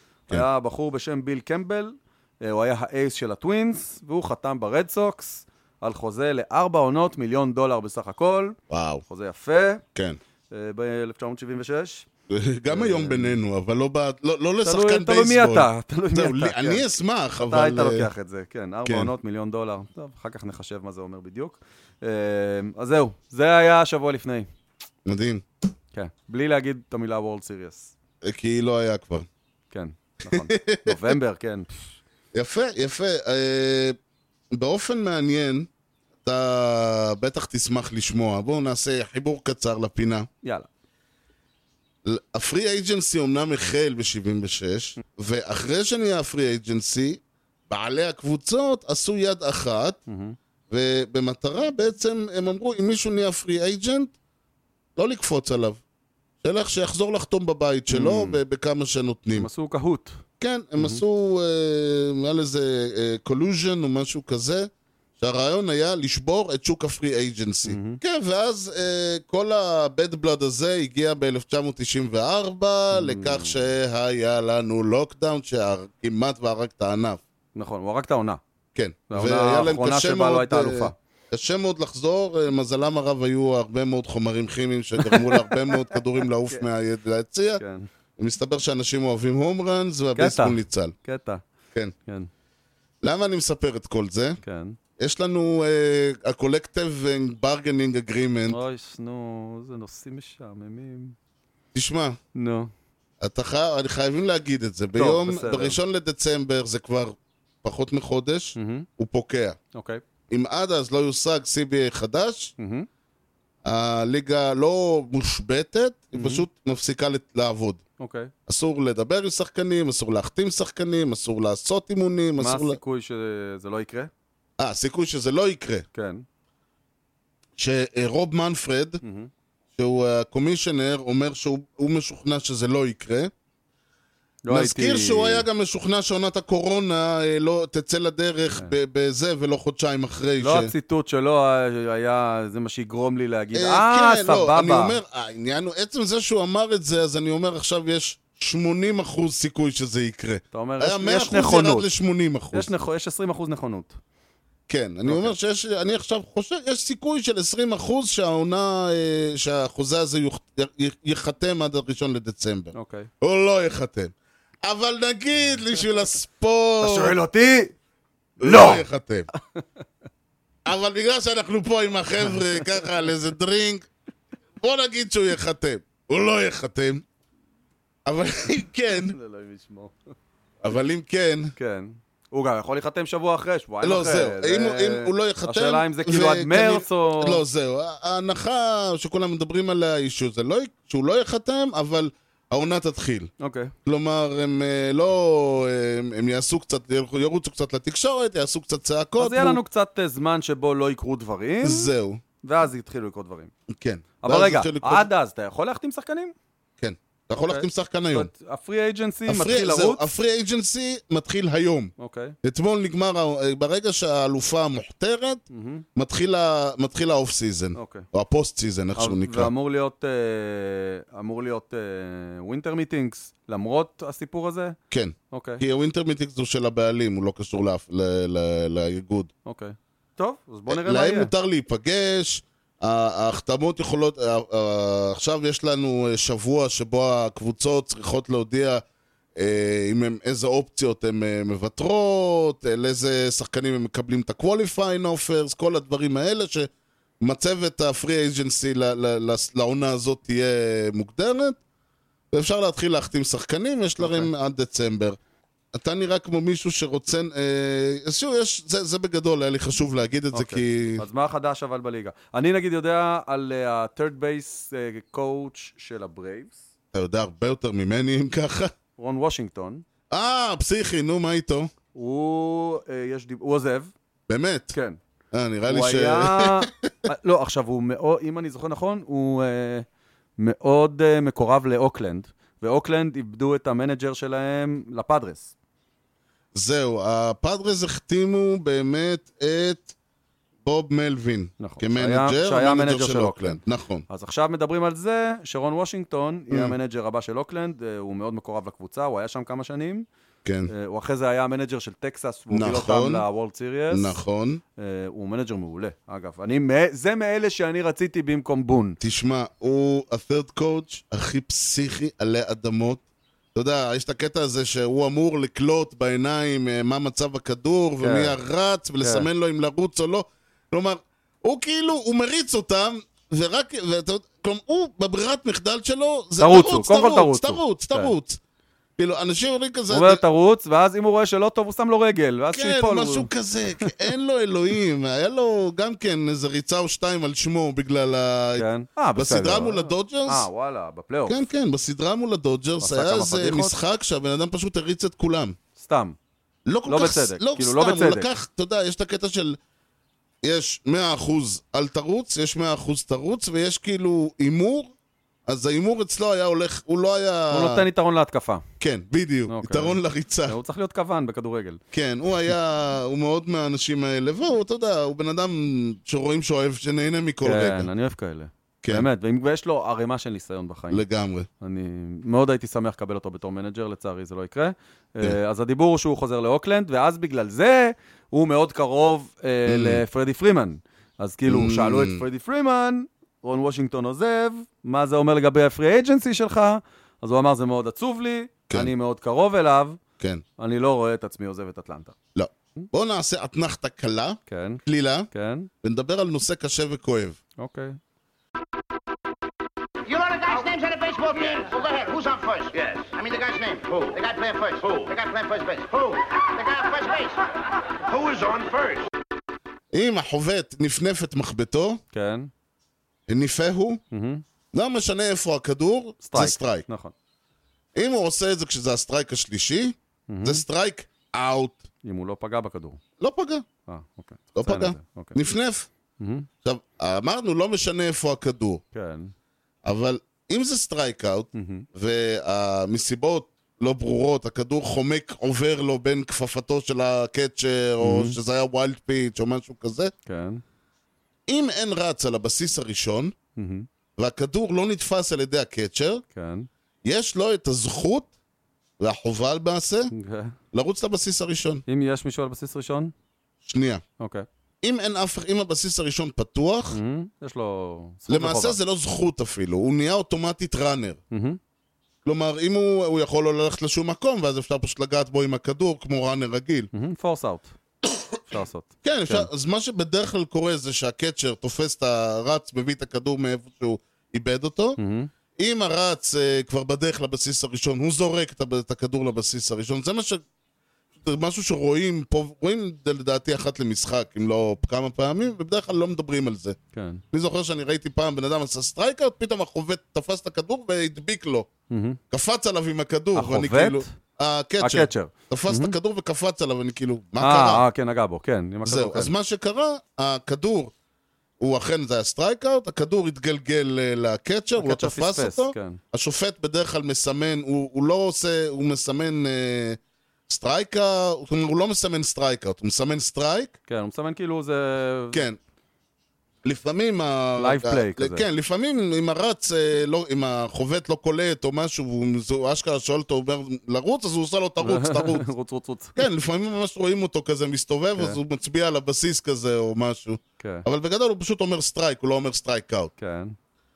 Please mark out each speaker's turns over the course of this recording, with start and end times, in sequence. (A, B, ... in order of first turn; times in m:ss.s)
0:00.3-0:09.8 A
0:08.7-0:09.0 B
0:10.5-0:12.0 A
0:12.3-0:18.1 B
0:12.7-0:13.4 A
0:14.6-0:16.8 A
0:17.4-0:24.5 A
0:25.0-0:25.4 B
0:25.9-0:27.9 A
0:28.2-0:29.3 B
0:29.7-0:31.8 A
0:30.2-0:31.2 B
0:32.3-0:34.0 B
0:34.5-0:35.7 B
0:36.2-0:40.3 B
0:40.4-0:40.7 A
0:42.0-0:50.0 B
0:50.1-0:50.4 A
0:50.7-0:54.1 B
0:55.0-0:55.8 B
0:56.4-0:59.5 B
0:57.9-0:58.4 A
0:59.3-1:00.2 A
1:00.4-1:17.2 B
1:07.6-1:08.0 A
1:12.9-1:13.6 A
1:17.5-1:18.4 A
1:18.7-1:27.6 B
1:19.1-1:20.9 A
1:25.0-1:25.9 A
1:27.6-1:27.9 A
1:28.2-1:30.9 B
1:30.2-1:31.4 A
1:33.0-1:34.4 B
1:34.4-1:34.8 A
1:35.0-1:38.6 B
1:38.5-1:41.1 A
1:41.7-1:42.2 B
1:42.3-1:42.7 A
1:43.2-1:49.6 B
1:44.9-1:45.8 A
1:48.6-1:48.9 A
1:49.7-1:50.0 A
1:50.3-1:52.5 B
1:52.6-1:52.9 A
1:53.6-1:57.8 B
1:56.1-1:56.4 A
1:58.0-1:58.3 A
1:58.5-2:02.8 B
2:02.4-2:04.1 A
2:04.6-2:05.8 B
2:05.9-2:06.2 A
2:07.6-2:09.0 B
2:09.0-2:09.3 A
2:09.8-2:13.3 B
2:14.4-2:15.5 A
2:14.5-2:20.7 B
2:20.4-2:25.0 A
2:23.5-2:32.7 B
2:30.5-2:31.9 A
2:32.5-2:34.0 A
2:34.7-2:47.2 B
2:35.0-2:35.3 A
2:42.7-2:43.1 A
2:46.8-2:47.7 A
2:48.4-2:48.8 A
2:48.4-2:49.3 B
2:50.6-2:53.9 B
2:54.6-2:57.0 B
2:58.0-2:59.1 B
2:59.0-3:00.0 A
3:00.6-3:01.5 B
3:01.6-3:07.4 A
3:03.8-3:13.3 B
3:13.4-3:13.7 A
3:13.8-3:19.6 B
3:19.2-3:21.9 A
3:21.6-3:22.2 B
3:22.4-3:23.5 A
3:23.7-3:25.1 B
3:24.2-3:26.3 A
3:26.8-3:28.3 B
3:27.4-3:30.0 A
3:29.3-3:35.4 B
3:32.0-3:32.3 A
3:35.5-3:35.8 A
3:36.0-3:39.5 B
3:37.7-3:38.1 A
3:39.0-3:44.8 A
3:44.9-3:49.3 B
3:45.3-3:45.6 A
3:49.4-3:51.3 A
3:50.7-3:58.8 B
3:59.4-4:06.7 B
4:07.2-4:11.6 B
4:12.3-4:15.2 B
4:14.0-4:14.3 A
4:15.7-4:21.0 B
4:20.3-4:26.6 A
4:26.9-4:28.7 B
4:29.0-4:29.8 A
4:30.1-4:31.7 B
4:31.9-4:33.9 A
4:34.3-4:34.7 B
4:34.7-4:35.0 A
4:35.3-4:36.9 B
4:35.7-4:39.8 A
4:40.4-4:45.5 A
4:46.5-4:49.9 B
4:50.6-4:54.0 B
4:51.6-5:00.0 A
4:56.5-4:56.7 B
5:00.4-5:00.7 B
5:00.7-5:04.2 A
5:02.5-5:03.2 B
5:03.9-5:04.6 B
5:04.8-5:09.0 A
5:09.0-5:13.0 B
5:13.5-5:28.4 B
5:18.0-5:18.4 A
5:19.0-5:19.3 A
5:26.4-5:28.1 A
5:29.0-5:30.2 B
5:29.9-5:33.3 A
5:32.5-5:40.5 B
5:38.6-5:41.4 A
5:41.3-5:45.6 B
5:42.8-5:43.8 A
5:45.8-5:46.2 A
5:46.7-5:49.6 B
5:46.9-5:48.3 A
5:50.4-5:54.9 B
5:55.5-5:57.8 B
5:57.5-5:58.6 A
5:58.8-6:00.6 B
5:59.5-6:01.8 A
6:01.9-6:07.9 B
6:07.4-6:11.0 A
6:10.9-6:11.5 B
6:11.6-6:30.0 A
6:19.7-6:20.0 B
6:21.5-6:22.2 B
6:30.6-6:32.2 A
6:32.3-6:35.3 B
6:34.5-6:35.7 A
6:35.8-6:37.4 B
6:37.6-6:38.0 A
6:40.0-6:47.4 C
6:48.0-6:49.1 C
6:49.9-6:52.0 B
6:52.1-6:52.5 A
6:53.3-6:54.0 B
6:54.1-6:54.4 A
6:54.7-6:56.8 B
6:56.2-6:57.1 A
6:58.0-7:01.8 B
7:00.3-7:00.6 A
7:02.0-7:03.0 A
7:03.2-7:03.6 B
7:03.9-7:05.4 A
7:04.5-7:05.9 B
7:06.2-7:06.5 A
7:06.6-7:08.8 B
7:08.9-7:09.3 A
7:09.8-7:20.1 B
7:11.5-7:11.8 A
7:18.0-7:18.4 A
7:20.2-7:20.6 A
7:21.5-7:23.3 B
7:23.6-7:23.9 A
7:24.2-7:26.2 B
7:26.3-7:26.7 A
7:27.0-7:28.3 B
7:29.0-7:30.1 B
7:30.1-7:30.6 A
7:30.7-7:31.8 B
7:31.9-7:33.1 A
7:33.6-7:34.0 B
7:34.2-7:34.4 A
7:34.8-7:37.0 B
7:36.9-7:38.8 A
7:38.3-7:41.2 B
7:41.3-7:41.6 A
7:42.2-7:46.9 B
7:46.9-7:47.7 A
7:48.5-7:49.5 A
7:49.0-7:55.0 B
7:55.0-7:55.3 A
7:55.6-8:00.4 B
8:01.2-8:06.8 B
8:06.9-8:07.2 A
8:07.3-8:11.7 B
8:11.9-8:12.2 A
8:12.3-8:17.8 B
8:13.3-8:14.1 A
8:14.8-8:16.0 A
8:17.4-8:19.3 A
8:18.8-8:20.9 B
8:21.6-8:33.7 B
8:24.8-8:26.0 A
8:33.9-8:35.4 A
8:35.3-8:35.6 B
8:36.6-8:45.5 B
8:37.6-8:38.4 A
8:44.8-8:46.2 A
8:46.2-8:53.1 B
8:50.6-8:50.8 A
8:53.2-8:53.5 A